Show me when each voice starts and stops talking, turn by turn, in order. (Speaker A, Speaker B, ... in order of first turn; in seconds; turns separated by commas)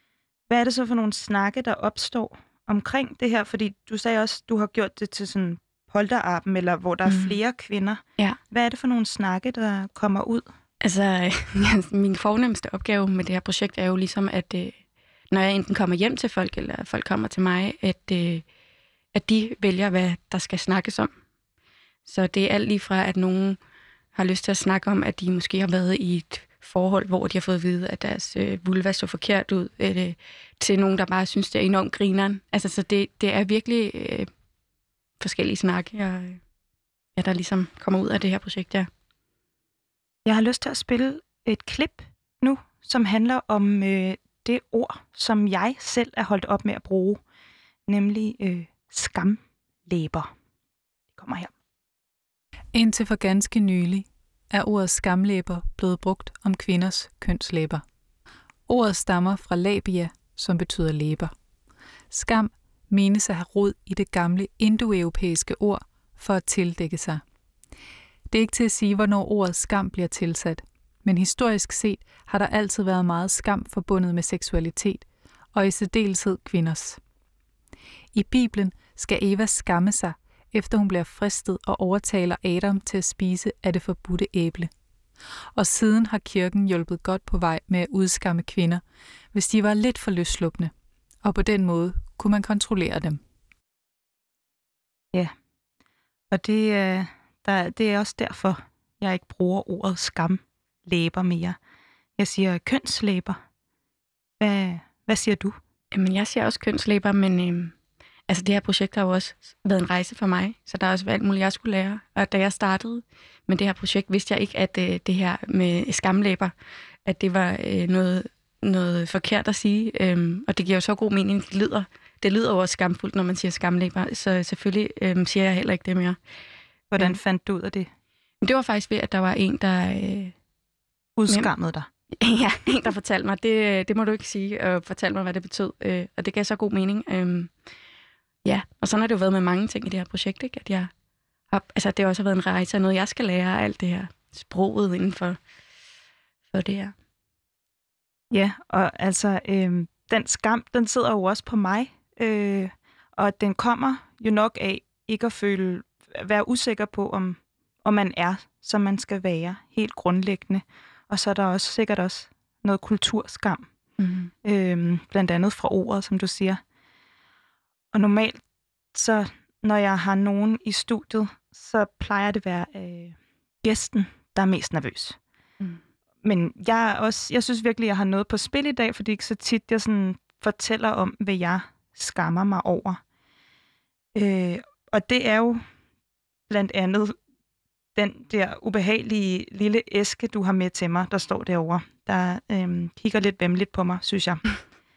Speaker A: 0.5-10.4, Speaker B: 7.0-7.4, Speaker B: 10.8-18.4, Speaker B: 19.1-21.1, Speaker B: 22.0-23.6, Speaker B: 24.1-34.3, Speaker B: 35.2-36.4, Speaker B: 37.1-38.9, Speaker A: 40.2-47.2, Speaker A: 47.9-50.3, Speaker A: 51.1-51.5, Speaker C: 52.7-57.8, Speaker C: 58.7-61.3, Speaker C: 62.1-67.2, Speaker C: 68.3-77.0, Speaker C: 78.1-84.7, Speaker C: 85.5-88.8, Speaker C: 89.3-90.7, Speaker C: 91.2-93.2, Speaker A: 96.3-101.6, Speaker A: 102.2-103.4, Speaker A: 104.4-105.6, Speaker B: 105.9-107.7, Speaker B: 108.3-116.5, Speaker B: 117.0-126.2, Speaker A: 126.9-127.9, Speaker B: 128.4-130.3, Speaker A: 131.2-131.9, Speaker B: 132.2-137.5, Speaker B: 138.4-140.9, Speaker B: 141.5-145.4, Speaker B: 146.5-146.9, Speaker A: 148.3-163.7, Speaker B: 164.0-164.3, Speaker A: 164.4-166.6, Speaker A: 167.9-168.4, Speaker A: 168.9-175.2, Speaker A: 176.2-183.0, Speaker A: 184.1-185.6, Speaker A: 186.5-187.2, Speaker A: 187.9-194.5